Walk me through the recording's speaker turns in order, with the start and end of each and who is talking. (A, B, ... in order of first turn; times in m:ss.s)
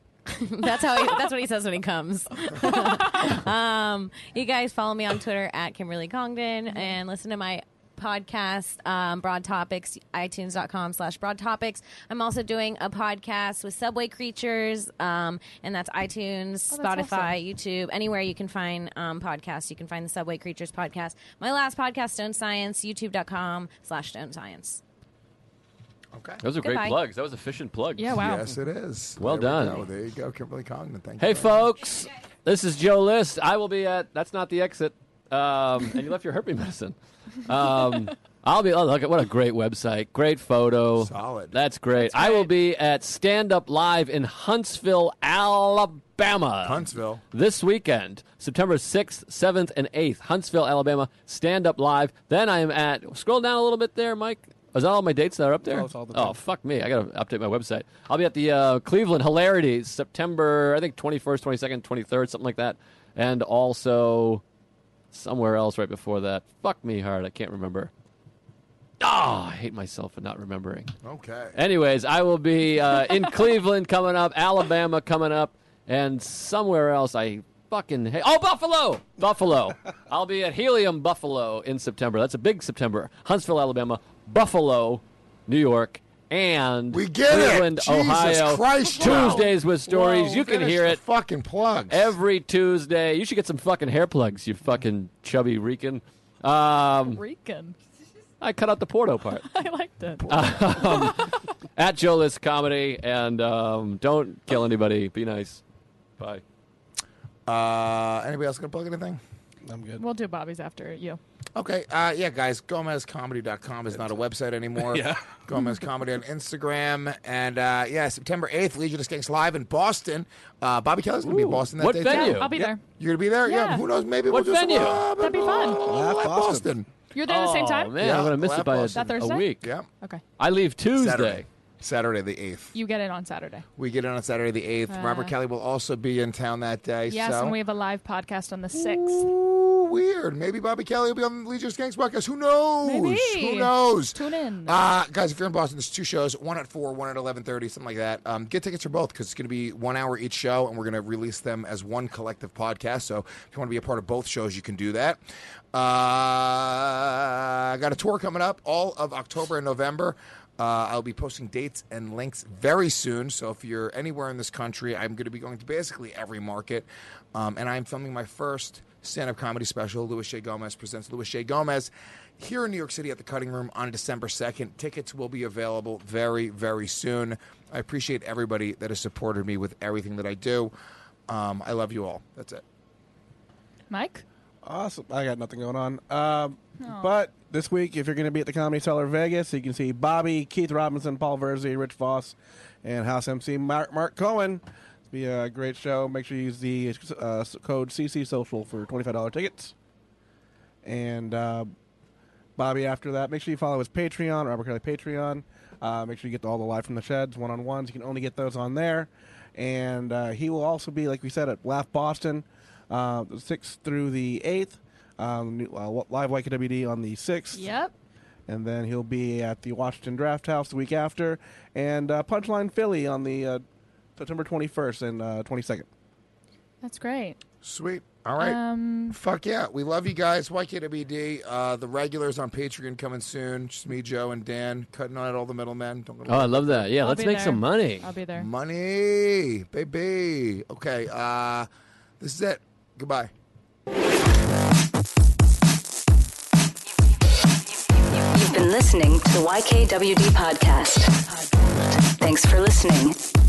0:00.3-0:24.8 A
0:16.7-0:17.4 B
0:26.1-0:26.4 C
0:26.4-0:28.2 D
0:26.6-0:27.0 A
0:28.0-0:28.5 B
0:28.2-0:31.6 C
0:29.2-0:29.8 D
0:31.2-1:04.4 D
0:41.0-0:41.5 C
0:42.0-0:42.5 B
0:46.6-0:47.2 C
0:55.6-0:56.4 E
1:05.1-1:07.9 D
1:09.0-1:10.9 D
1:11.0-1:11.5 C
1:11.5-1:31.0 D
1:26.9-1:29.5 C
1:29.0-1:30.3 B
1:30.2-1:32.1 C
1:31.9-1:37.2 D
1:37.0-1:37.8 B
1:38.4-1:39.5 D
1:39.5-1:41.3 B
1:40.3-1:45.6 D
1:47.5-1:49.2 C
1:49.7-1:50.0 E
1:50.0-1:51.2 B
1:51.6-2:06.9 C
1:54.8-1:55.4 E
2:01.2-2:02.5 D
2:02.0-2:02.8 B
2:03.4-2:03.8 B
2:04.3-2:05.0 D
2:05.2-2:05.8 B
2:05.8-2:06.7 E
2:07.1-2:08.0 B
2:07.2-2:09.7 D
2:08.0-2:09.8 C
2:08.9-2:10.2 B
2:10.4-2:11.4 D
2:10.9-2:12.8 C
2:12.7-2:13.6 B
2:13.8-2:17.6 C
2:14.9-2:15.3 B
2:17.1-2:19.3 B
2:18.7-2:35.2 C
2:22.8-2:24.8 B
2:35.7-3:00.7 C
3:01.3-3:02.6 C
3:03.9-3:04.2 B
3:04.6-3:19.7 E
3:06.8-3:07.1 B
3:20.8-3:21.7 E
3:22.6-3:37.7 E
3:37.5-3:37.9 B
3:38.5-3:43.6 E
3:44.2-3:45.9 E
3:46.8-3:47.4 B
3:47.6-3:56.9 C
3:48.4-3:49.2 B
3:56.3-3:58.1 D
3:57.0-3:58.5 B
3:58.3-4:01.7 C
4:02.2-4:03.3 C
4:08.1-4:13.2 F